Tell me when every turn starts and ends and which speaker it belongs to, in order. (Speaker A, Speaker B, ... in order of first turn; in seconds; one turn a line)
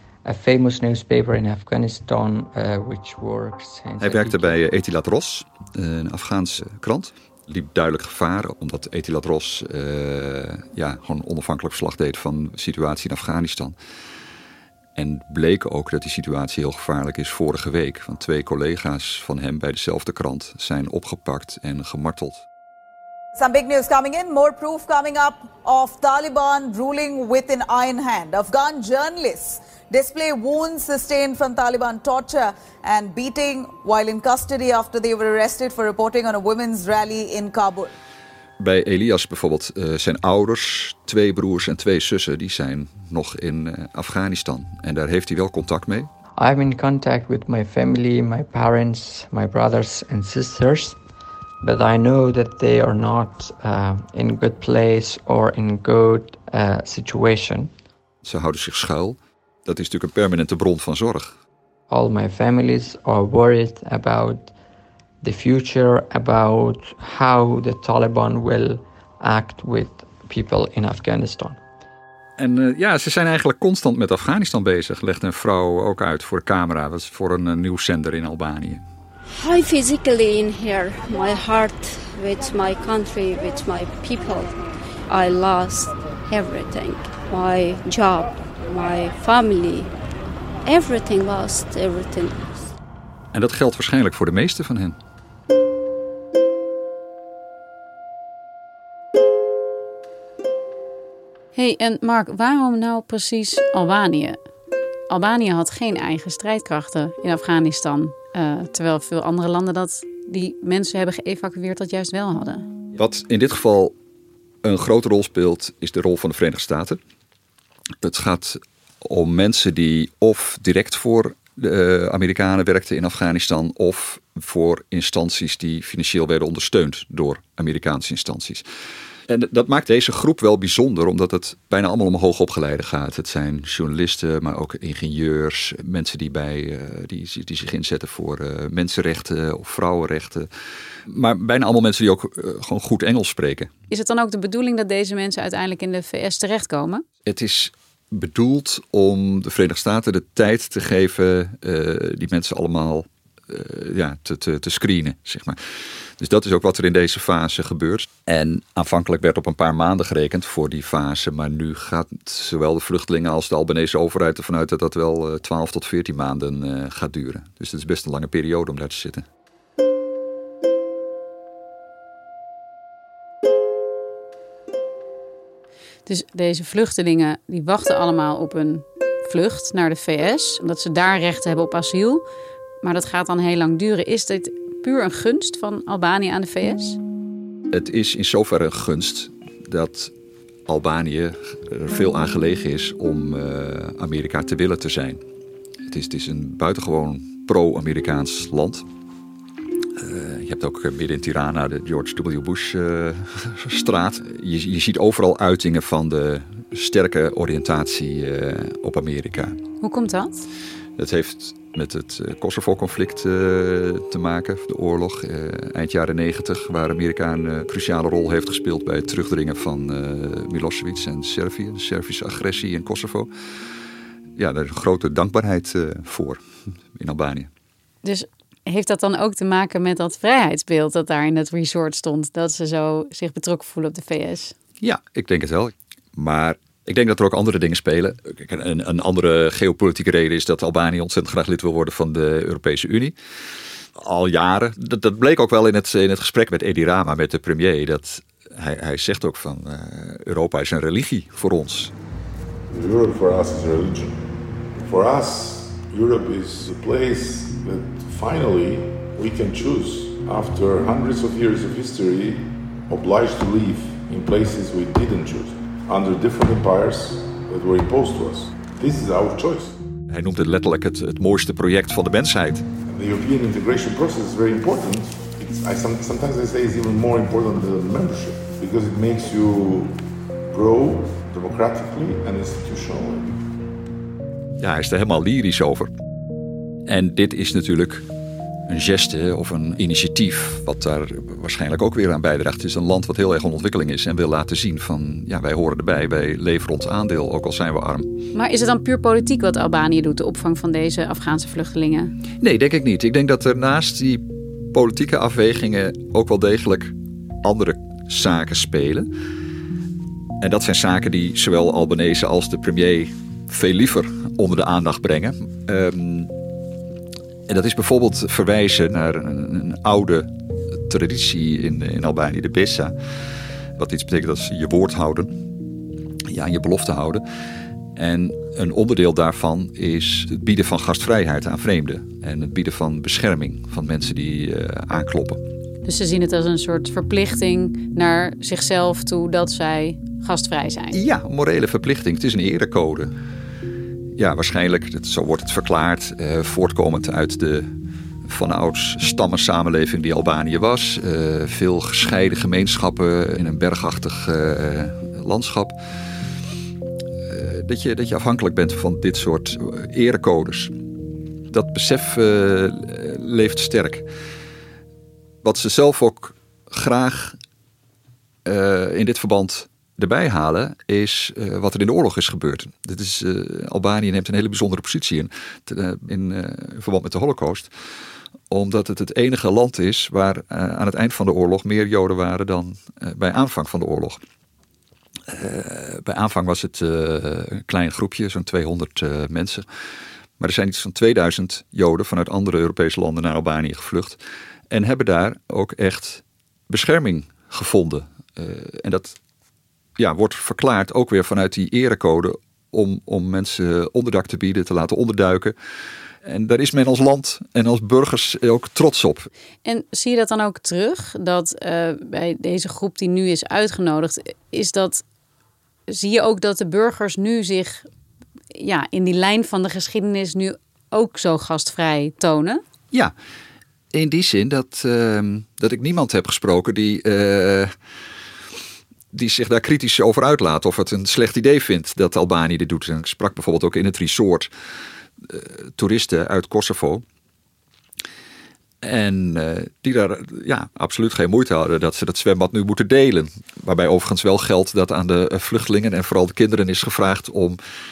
Speaker A: 0.3-4.6
Speaker B: 4.0-13.8
Speaker B: 15.0-22.4
Speaker C: 23.4-37.9
Speaker B: 38.6-46.1
Speaker A: 46.4-51.0
Speaker A: 51.6-57.7
Speaker B: 58.2-61.4
Speaker A: 61.9-64.5
Speaker A: 65.2-71.6
Speaker B: 72.4-78.8
Speaker D: 79.3-84.5
Speaker D: 85.1-89.9
Speaker D: 90.6-92.7
Speaker B: 93.3-95.0
Speaker E: 101.5-104.4
Speaker E: 105.1-112.7
Speaker B: 113.0-113.9
Speaker B: 114.6-117.0
Speaker B: 118.0-128.6
Speaker B: 129.3-140.5
Speaker B: 141.1-143.7
Speaker E: 143.9-147.0
Speaker B: 147.3-155.6
Speaker B: 156.2-169.2
Speaker E: 176.1-182.2
Speaker E: 182.8-187.0
Speaker B: 187.7-190.1
Speaker B: 190.7-195.2
Speaker B: 195.9-198.9
Speaker B: 200.0-209.6
Speaker E: 209.8-210.5
Speaker B: 211.0-223.3
Speaker B: 224.4-226.4
Speaker B: 226.9-227.5
Speaker E: 228.0-234.6
Speaker B: 234.8-243.2
Speaker B: 244.0-251.9
Speaker F: 252.7-254.2
Speaker F: 254.8-269.8
Speaker B: 270.1-272.6
Speaker F: 272.9-283.4
Speaker B: 284.6-285.9
Speaker B: 286.9-288.1
Speaker B: 288.7-298.1
Speaker E: 298.3-302.1
Speaker B: 302.4-309.1
Speaker B: 310.4-316.3
Speaker B: 317.5-320.3
Speaker B: 320.9-322.9
Speaker B: 323.8-325.4
Speaker B: 326.3-327.2
Speaker B: 328.0-335.4
Speaker E: 335.8-341.0
Speaker B: 340.9-343.1
Speaker B: 344.2-347.7
Speaker B: 348.3-355.8
Speaker B: 357.3-360.7
Speaker B: 361.5-364.1
Speaker B: 365.4-367.4
Speaker B: 368.5-377.7
Speaker B: 378.5-384.2
Speaker B: 385.3-389.6
Speaker B: 390.4-394.2
Speaker B: 394.7-399.2
Speaker B: 400.0-405.5
Speaker B: 406.2-409.3
Speaker E: 409.6-415.0
Speaker E: 415.9-417.9
Speaker E: 418.6-422.6
Speaker B: 423.9-427.7
Speaker B: 429.1-434.5
Speaker B: 435.2-437.0
Speaker B: 438.8-447.6